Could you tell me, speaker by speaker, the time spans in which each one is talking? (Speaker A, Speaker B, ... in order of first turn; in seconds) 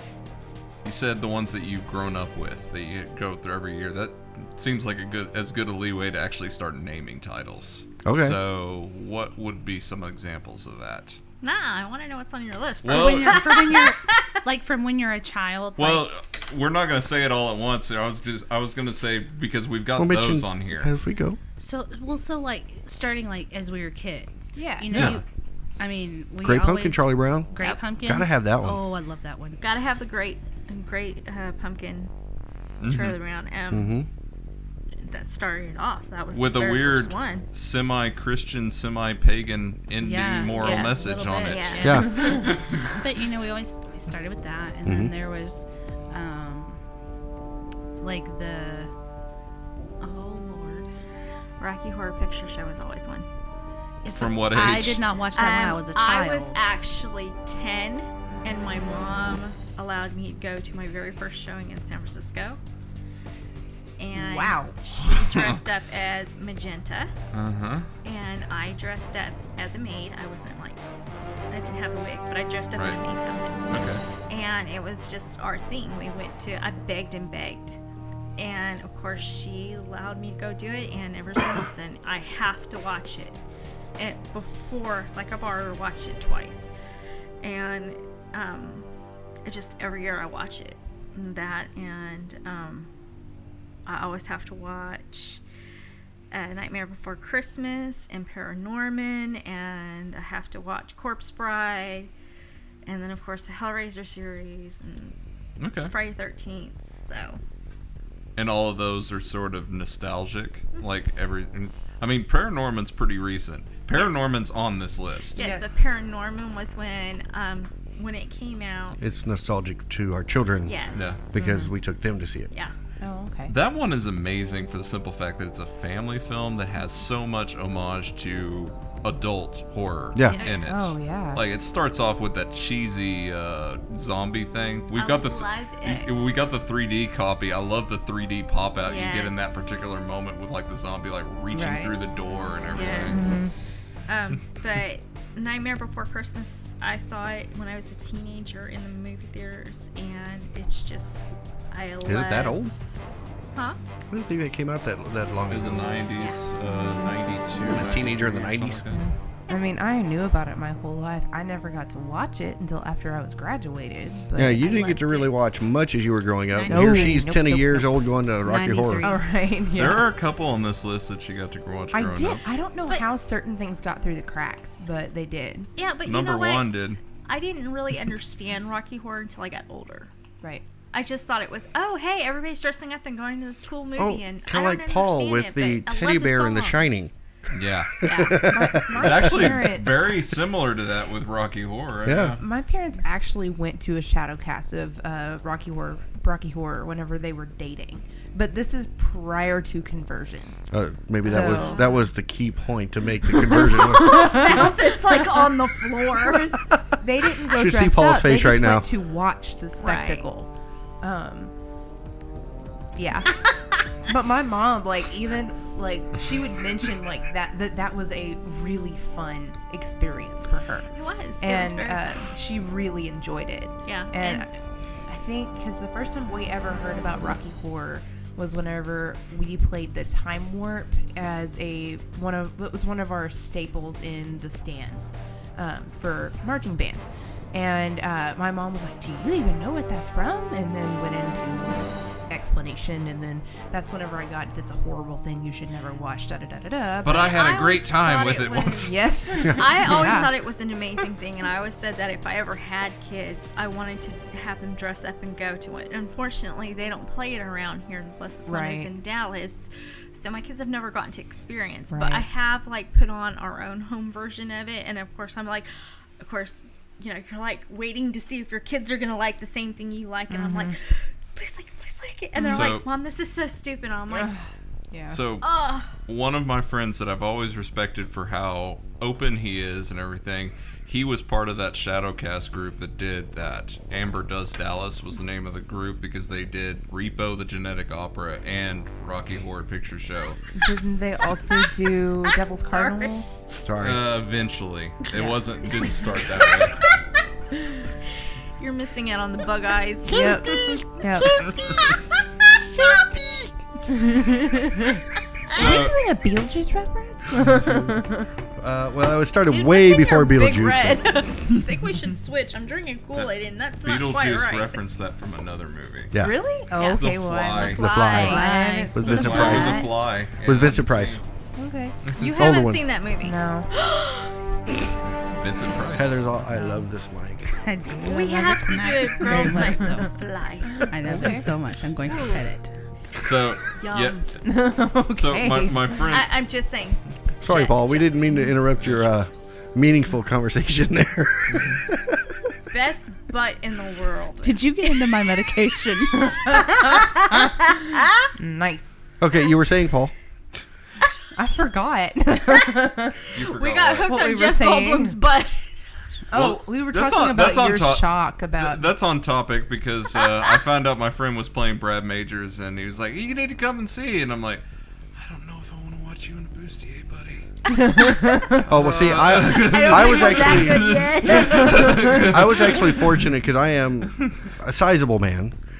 Speaker A: 0.8-11.2, 12.8-13.5, 15.8-20.9, 24.9-25.2, 32.8-33.2, 36.3-42.9, 54.1-55.0, 65.0-65.6, 67.3-67.9, 73.7-74.0, 105.6-105.9, 108.4-115.5, 120.9-121.2, 123.5-143.2, 155.5-159.0, 169.7-172.5, 176.1-177.0, 187.5-192.4, 247.0-249.0, 272.4-272.9, 275.1-290.4, 293.8-296.8, 305.5-306.0, 313.1-316.1, 317.0-317.9, 319.0-321.2, 325.3-326.2, 333.2-334.4, 335.1-336.3, 338.8-339.1, 341.5-341.8, 353.3-354.2, 356.3-364.6, 365.1-367.5, 368.7-373.1
Speaker B: 8.0-8.4, 20.0-21.4, 26.4-27.5, 28.0-28.8, 33.7-34.1, 41.8-42.4, 44.9-45.1, 119.0-122.5, 130.1-130.4, 152.0-152.7, 154.1-156.0, 157.7-159.0, 164.3-169.1, 184.0-187.1, 188.0-189.7, 192.0-192.4, 200.7-204.8, 207.4-208.9, 293.6-294.0, 308.6-311.2, 317.6-321.2, 322.3-322.8, 326.0-327.5, 337.4-342.5, 349.2-350.1, 368.6-371.0, 372.1-375.6
Speaker C: 11.4-14.3, 29.6-32.1, 32.8-34.0, 35.0-37.5, 40.6-42.5, 51.6-53.3, 55.3-62.6, 64.0-67.1, 68.0-70.8, 71.5-73.6, 74.3-77.8, 78.4-83.4, 84.0-86.7, 87.4-88.9, 89.5-92.9, 93.9-95.4, 96.3-102.1, 102.8-105.2, 105.8-107.4, 113.9-114.3, 115.3-119.0, 120.7-121.3, 130.3-130.9, 134.9-136.5, 138.8-139.7, 142.7-143.3, 144.1-152.6, 164.8-165.4, 166.5-167.1, 175.8-176.7, 177.2-180.1, 180.9-187.1, 188.0-188.5, 201.2-202.0, 203.9-206.6, 209.8-210.3, 220.9-222.2, 223.8-224.5, 247.1-274.3, 275.4-275.9, 292.6-293.2, 298.6-302.1, 302.8-303.4, 305.5-305.8, 309.5-314.8, 316.7-317.1, 317.9-318.6, 319.3-319.7, 322.1-324.3, 328.0-330.9, 332.0-332.5, 333.7-334.3, 336.1-338.5, 342.7-345.0, 353.4-355.7, 367.7-367.9, 369.5-372.0
Speaker D: 12.9-16.1, 21.6-25.2, 25.8-29.6, 40.0-46.8, 48.0-48.9, 50.0-50.9, 54.0-56.6, 141.5-141.9, 168.4-169.2, 318.1-318.9, 327.6-330.1, 330.8-332.7, 344.4-346.4
Speaker E: 24.6-25.2, 64.1-64.8, 115.4-116.0, 121.3-121.7, 123.0-123.5, 130.7-131.4, 143.1-143.5, 158.9-165.1, 166.7-167.9, 169.0-170.1, 171.9-175.7, 180.4-180.7, 188.5-190.1, 192.4-200.6, 201.2-201.9, 203.3-205.4, 206.1-210.5, 211.0-211.5, 213.0-213.5, 214.0-247.3, 248.8-250.4, 258.5-258.9, 261.9-262.3, 270.3-270.8, 272.4-272.7, 274.1-275.2, 290.6-293.3, 300.1-301.5, 303.9-308.3, 316.2-319.9, 321.6-322.0, 323.2-323.7, 329.2-330.0, 330.8-331.4, 334.4-336.0, 346.2-347.7, 348.4-349.2, 351.4-353.3, 354.1-355.2, 356.3-358.9, 367.7-368.6, 371.3-372.3